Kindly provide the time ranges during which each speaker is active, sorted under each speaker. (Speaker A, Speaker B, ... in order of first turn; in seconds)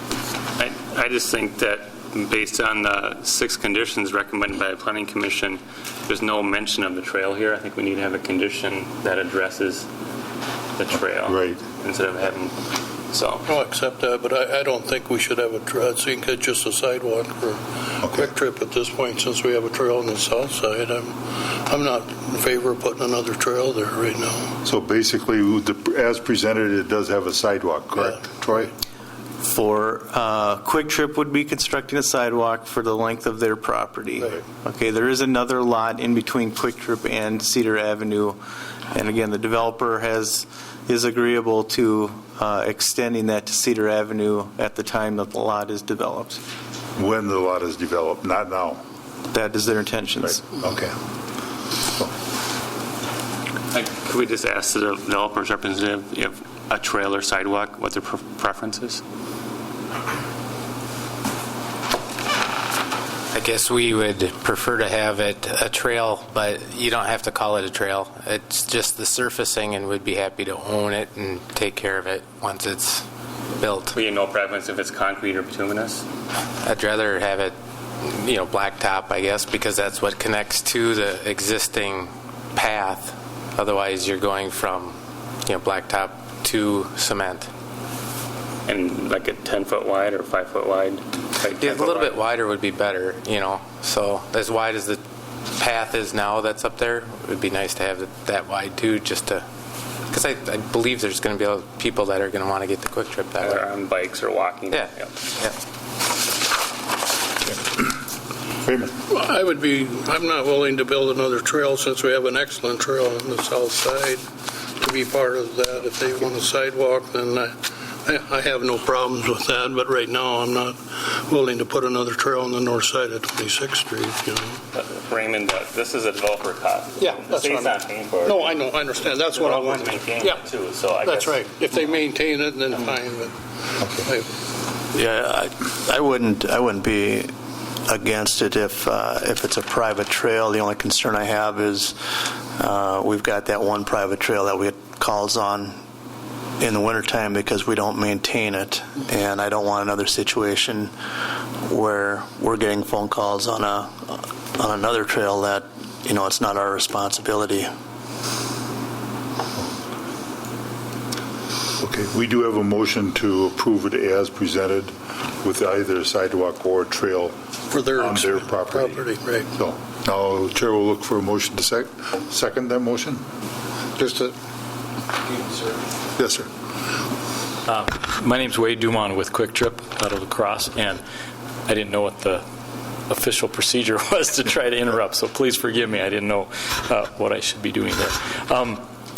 Speaker A: 0.6-9.9, 10.8-13.5, 53.7-59.0, 73.9-76.0, 88.7-92.2, 103.4-105.2, 124.7-132.0
Speaker B: 11.2-11.6, 18.0-18.3, 24.6-28.7, 47.0-48.8, 50.2-50.9, 107.5-107.9, 108.6-108.9, 161.8-167.4, 167.9-173.2, 176.2-176.5
Speaker C: 13.5-17.6, 18.2-21.1, 21.7-24.4, 109.1-114.2, 114.8-117.5, 118.1-120.7, 121.3-124.5, 127.0-127.7, 128.2-130.4, 131.0-133.3, 167.7-169.5
Speaker D: 29.4-38.4, 38.9-46.4, 49.3-50.5
Speaker E: 63.4-73.0, 73.7-73.9, 76.7-77.5, 78.3-84.9, 85.5-87.5, 91.7-95.0, 95.6-99.5, 100.1-103.6
Speaker F: 134.9-137.3, 137.9-145.8, 146.6-150.9, 151.7-157.7
Speaker G: 177.7-181.0, 181.7-182.4, 183.1-188.8